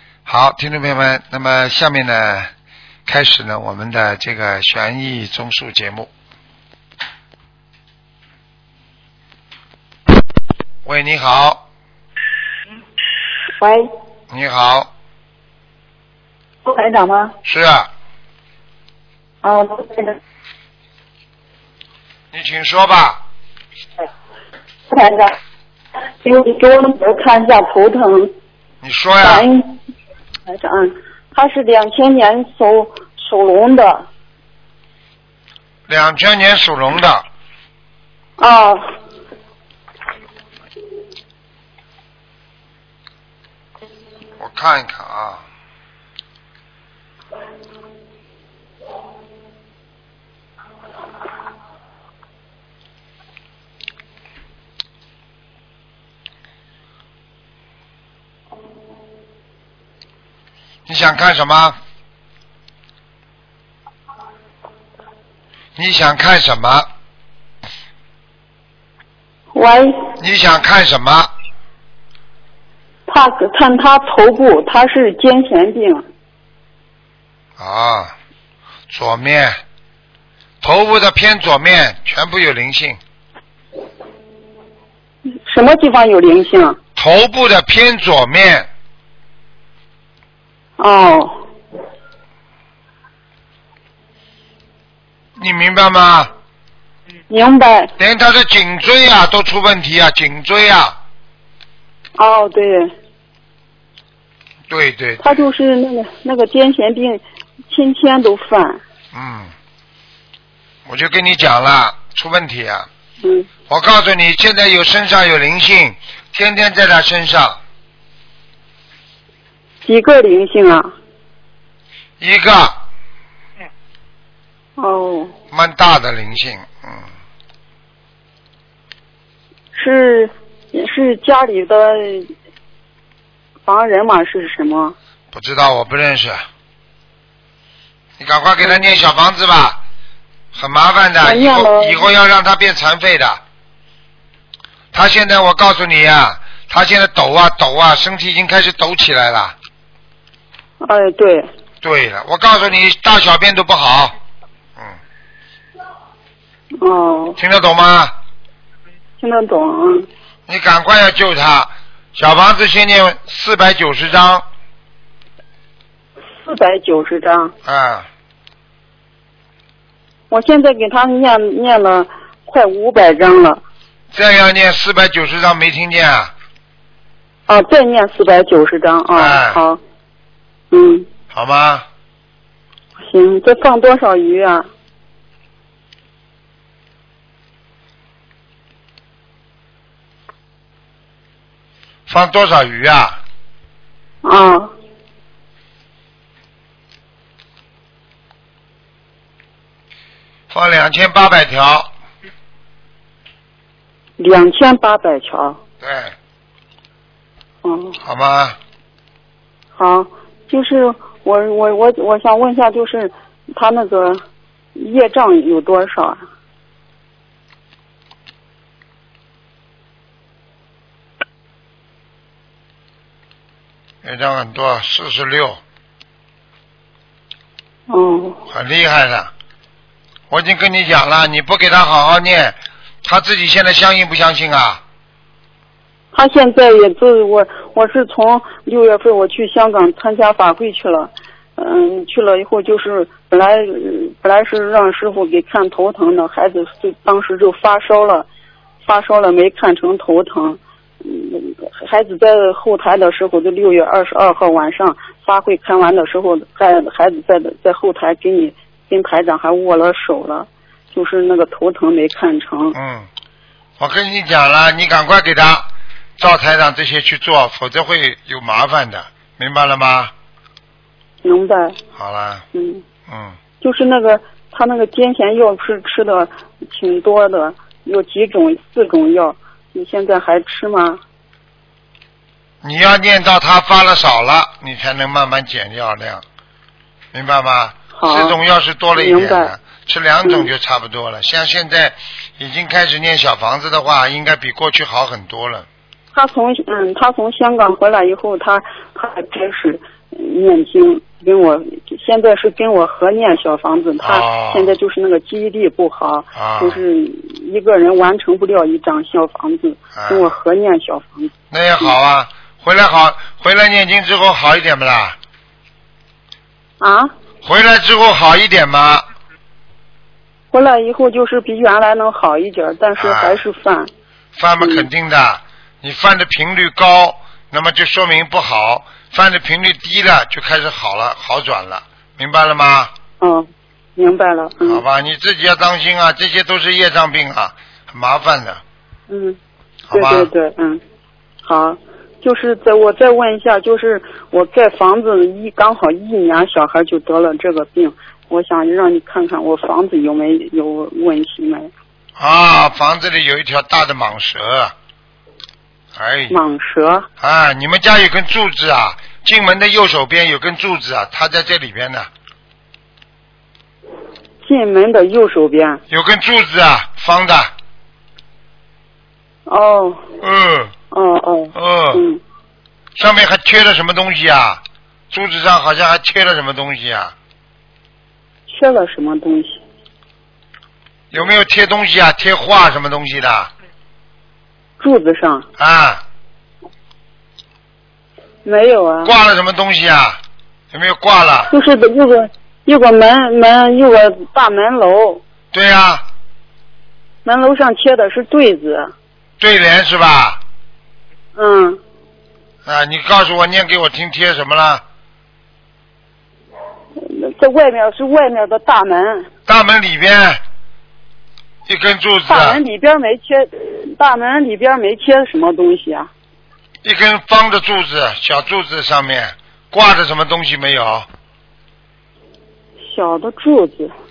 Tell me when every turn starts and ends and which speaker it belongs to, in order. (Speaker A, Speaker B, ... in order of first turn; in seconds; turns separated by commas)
Speaker A: 0.2-2.5, Speaker A: 3.0-6.1, Speaker A: 10.8-11.6, Speaker B: 13.6-13.9, Speaker A: 14.3-14.9, Speaker B: 16.6-17.4, Speaker A: 17.4-17.9, Speaker B: 19.4-20.2, Speaker A: 22.3-23.2, Speaker B: 24.9-25.4, Speaker B: 26.2-28.3, Speaker A: 28.8-29.5, Speaker B: 29.2-29.8, Speaker B: 30.4-34.1, Speaker A: 35.9-37.2, Speaker B: 38.4-38.9, Speaker A: 44.4-45.4, Speaker A: 60.9-61.8, Speaker A: 65.8-66.9, Speaker B: 69.5-70.0, Speaker A: 70.2-71.3, Speaker B: 73.1-76.0, Speaker A: 77.6-78.1, Speaker A: 78.9-79.6, Speaker A: 80.6-83.0, Speaker B: 85.3-86.8, Speaker A: 87.0-88.7, Speaker B: 90.8-91.4, Speaker A: 95.4-96.3, Speaker B: 97.3-97.9, Speaker A: 98.0-101.0, Speaker B: 102.2-102.9, Speaker A: 104.7-105.4, Speaker B: 105.2-108.8, Speaker A: 109.1-109.5, Speaker A: 110.9-112.9, Speaker B: 113.2-113.5, Speaker A: 113.7-117.6, Speaker B: 119.8-120.9, Speaker A: 122.2-122.8, Speaker B: 124.8-125.3, Speaker A: 125.5-127.0, Speaker B: 129.7-132.3, Speaker B: 133.7-134.9, Speaker A: 135.3-136.4, Speaker A: 138.2-139.8, Speaker A: 140.5-143.4, Speaker B: 141.2-142.0, Speaker A: 144.9-149.5, Speaker B: 150.8-151.5, Speaker A: 151.8-154.2, Speaker B: 156.8-157.4, Speaker A: 157.4-158.1, Speaker B: 159.2-160.1, Speaker A: 160.5-164.4, Speaker B: 166.4-167.5, Speaker A: 167.7-168.1, Speaker B: 170.3-173.6, Speaker A: 174.1-176.3, Speaker B: 177.5-179.8, Speaker A: 179.2-179.6, Speaker B: 180.7-181.1, Speaker A: 181.3-181.8, Speaker B: 183.0-184.7, Speaker A: 192.1-193.2, Speaker B: 194.2-194.7, Speaker A: 200.5-201.9, Speaker B: 204.2-205.6, Speaker A: 205.8-206.2, Speaker B: 207.6-208.0, Speaker A: 208.0-208.6, Speaker B: 209.8-214.2, Speaker B: 214.8-216.2, Speaker A: 224.0-225.6, Speaker B: 227.9-228.4, Speaker A: 228.5-229.3, Speaker A: 230.3-234.8, Speaker B: 236.1-248.3, Speaker B: 248.8-262.8, Speaker A: 262.8-263.1, Speaker A: 263.8-270.1, Speaker B: 271.2-271.8, Speaker A: 271.9-272.4, Speaker B: 272.5-272.8, Speaker A: 273.1-273.4, Speaker B: 273.6-281.0, Speaker A: 282.6-286.2, Speaker A: 287.1-295.7, Speaker B: 287.9-288.4, Speaker B: 288.9-289.5, Speaker B: 290.2-290.5, Speaker B: 296.1-311.3, Speaker A: 304.0-304.7, Speaker A: 306.4-306.8, Speaker A: 309.9-310.3, Speaker A: 311.5-315.2, Speaker B: 316.8-317.1, Speaker A: 317.4-319.0, Speaker B: 320.5-323.9, Speaker A: 323.0-323.4, Speaker A: 324.4-332.9, Speaker B: 324.6-324.9, Speaker B: 333.2-334.8, Speaker A: 334.6-338.6, Speaker B: 339.1-339.4, Speaker A: 339.9-340.3, Speaker B: 339.9-340.8, Speaker B: 341.4-351.7, Speaker A: 352.2-354.7, Speaker A: 355.9-356.4, Speaker B: 356.3-357.1, Speaker A: 357.2-362.1, Speaker B: 364.4-365.8, Speaker A: 365.9-367.5, Speaker B: 369.4-370.0, Speaker A: 370.2-370.7, Speaker B: 370.9-372.2, Speaker A: 371.6-372.0, Speaker A: 372.9-377.1, Speaker B: 378.5-379.6, Speaker A: 381.1-383.5, Speaker B: 384.8-385.5, Speaker A: 385.6-386.0, Speaker B: 388.4-389.1, Speaker A: 389.1-390.2, Speaker A: 390.7-391.5, Speaker B: 391.5-395.2, Speaker A: 395.5-396.0, Speaker B: 397.2-398.9, Speaker A: 399.4-400.4, Speaker B: 401.4-401.8, Speaker A: 402.6-404.8, Speaker B: 407.0-409.3, Speaker A: 409.5-410.4, Speaker A: 411.7-412.6, Speaker B: 412.3-416.1, Speaker A: 416.8-421.1, Speaker B: 422.8-423.9